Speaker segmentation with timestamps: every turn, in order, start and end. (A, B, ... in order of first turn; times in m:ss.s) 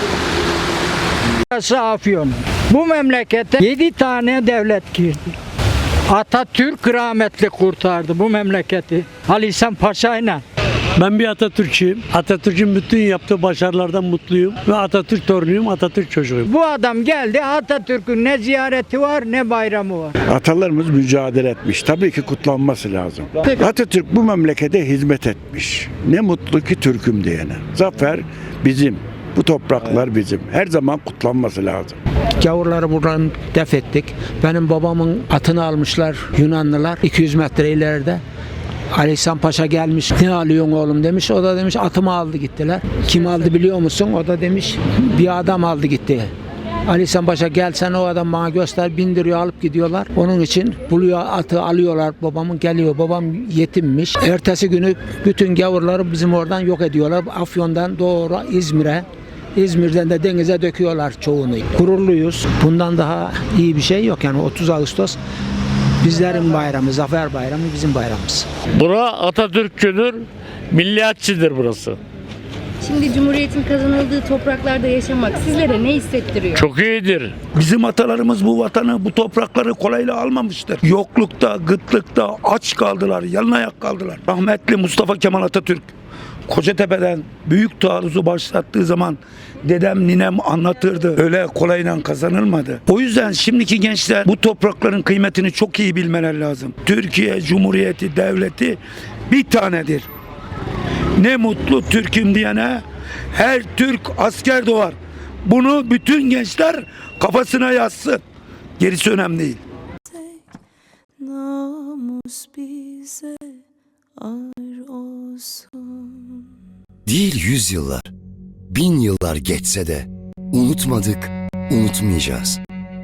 0:01.5-0:05.3 A
0:06.1-0:10.4 A
0:11.0-0:16.5 B
0:16.5-0:20.1 A
0:20.3-0:32.0 C
0:32.4-0:38.2 D
0:38.9-0:46.3 D
0:46.8-1:05.2 D
1:06.0-1:08.5 D
1:08.8-1:12.0 E
1:12.8-1:16.6 F
1:16.5-1:17.4 E
1:17.5-1:25.9 G
1:26.5-1:40.1 G
1:41.2-1:48.2 G
1:48.8-1:49.6 G
1:50.1-1:50.4 H
1:51.2-1:53.5 H
1:54.2-1:56.4 H
1:57.0-1:58.1 I
1:58.7-2:02.6 I